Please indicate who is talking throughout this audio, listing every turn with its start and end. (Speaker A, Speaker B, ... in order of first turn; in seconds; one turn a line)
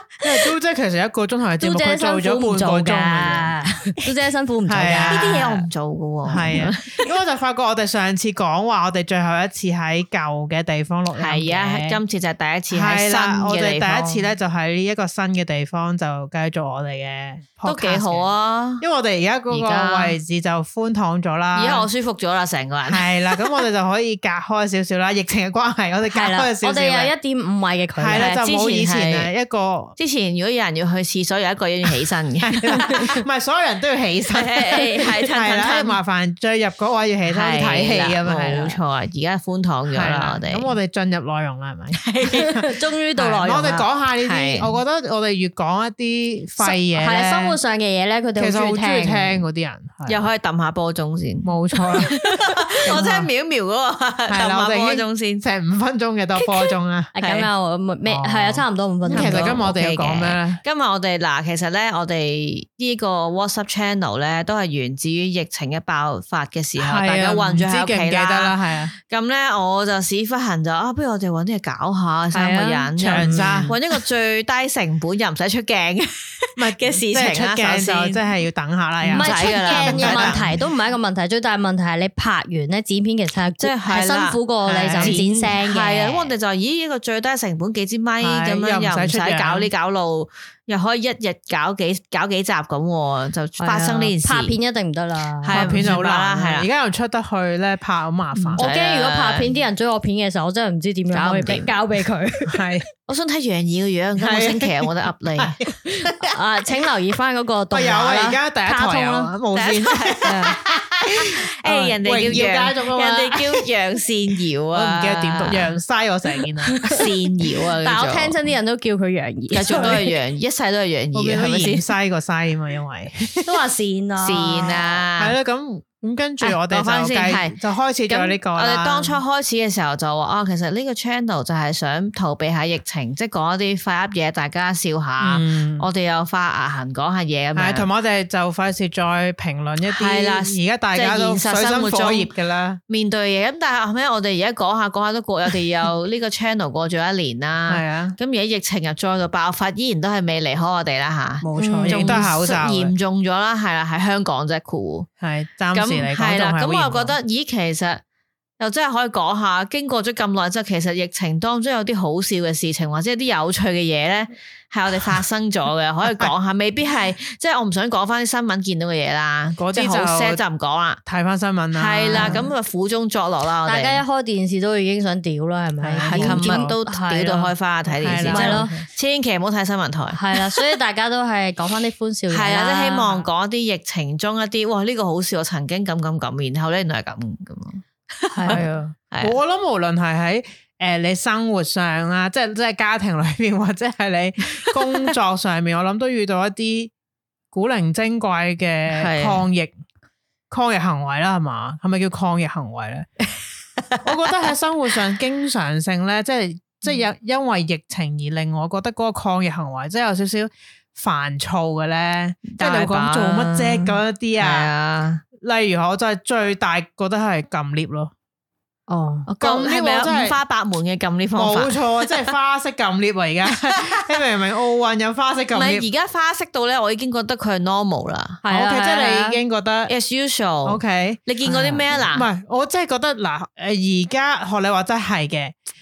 Speaker A: 0.2-3.5
Speaker B: 1.6-5.5
Speaker A: 4.7-5.7
Speaker C: 5.1-7.0
Speaker A: 6.3-12.0
Speaker C: 11.2-14.2
Speaker A: 12.7-18.3
Speaker C: 17.6-18.8
Speaker A: 18.8-21.9
Speaker B: 19.5-20.1
Speaker C: 21.6-23.1
Speaker A: 22.9-27.1
Speaker B: 26.1-28.4
Speaker A: 28.0-30.0
Speaker C: 28.1-29.3
Speaker C: 30.0-33.0
Speaker A: 32.4-38.8
Speaker B: 32.8-33.1
Speaker C: 34.3-36.0
Speaker B: 34.7-35.2
Speaker C: 37.3-40.7
Speaker A: 39.9-47.6
Speaker C: 42.0-42.5
Speaker B: 42.4-43.9
Speaker C: 44.2-44.7
Speaker B: 46.6-49.4
Speaker A: 48.4-50.2
Speaker C: 50.1-55.4
Speaker A: 51.4-52.1
Speaker A: 52.9-53.3
Speaker A: 54.3-57.1
Speaker B: 57.2-59.5
Speaker C: 57.2-57.5
Speaker C: 58.1-68.6
Speaker A: 59.1-60.6
Speaker A: 66.8-68.9
Speaker C: 69.1-78.2
Speaker B: 72.3-73.7
Speaker A: 73.0-73.8
Speaker A: 76.6-80.6
Speaker B: 79.1-86.3
Speaker C: 79.1-80.5
Speaker C: 83.6-94.6
Speaker A: 84.9-85.2
Speaker A: 88.2-89.7
Speaker B: 93.6-95.8
Speaker C: 95.4-96.7
Speaker A: 95.5-98.6
Speaker C: 98.4-99.5
Speaker B: 98.6-102.6
Speaker C: 101.1-101.7
Speaker A: 102.5-102.9
Speaker C: 103.1-105.5
Speaker A: 104.2-106.3
Speaker B: 106.3-109.3
Speaker A: 107.7-113.7
Speaker C: 109.5-110.4
Speaker B: 110.2-110.6
Speaker C: 111.1-115.8
Speaker A: 114.7-116.8
Speaker B: 116.7-117.1
Speaker C: 116.8-118.3
Speaker B: 117.8-120.1
Speaker C: 119.5-121.8
Speaker A: 119.7-120.0
Speaker A: 121.1-123.6
Speaker B: 123.5-124.9
Speaker C: 124.2-125.3
Speaker A: 125.2-129.2
Speaker C: 126.4-127.6
Speaker C: 128.1-137.9
Speaker A: 135.2-135.9
Speaker A: 137.6-142.8
Speaker C: 139.9-142.3
Speaker C: 142.9-155.1
Speaker A: 147.7-148.2
Speaker A: 151.4-152.9
Speaker B: 151.6-152.2
Speaker A: 155.2-157.2
Speaker C: 155.7-158.0
Speaker C: 158.6-171.0
Speaker A: 169.6-170.4
Speaker A: 171.1-172.4
Speaker C: 171.8-174.0
Speaker B: 172.1-172.4
Speaker B: 173.7-177.5
Speaker A: 175.8-176.7
Speaker C: 176.1-180.7
Speaker A: 178.0-178.9
Speaker B: 178.3-178.7
Speaker B: 180.2-183.3
Speaker C: 182.3-189.4
Speaker B: 188.3-188.6
Speaker A: 188.5-196.9
Speaker C: 194.6-195.1
Speaker A: 197.5-199.8
Speaker C: 198.9-199.4
Speaker A: 200.5-203.1
Speaker C: 203.9-204.5
Speaker A: 204.0-214.7
Speaker C: 212.5-215.2
Speaker A: 215.4-218.1
Speaker B: 218.9-219.3
Speaker C: 219.3-222.3
Speaker A: 219.4-220.4
Speaker A: 221.4-225.9
Speaker C: 223.7-224.2
Speaker C: 225.5-228.4
Speaker B: 228.4-229.4
Speaker A: 228.5-229.9
Speaker C: 229.9-232.3
Speaker A: 230.7-235.6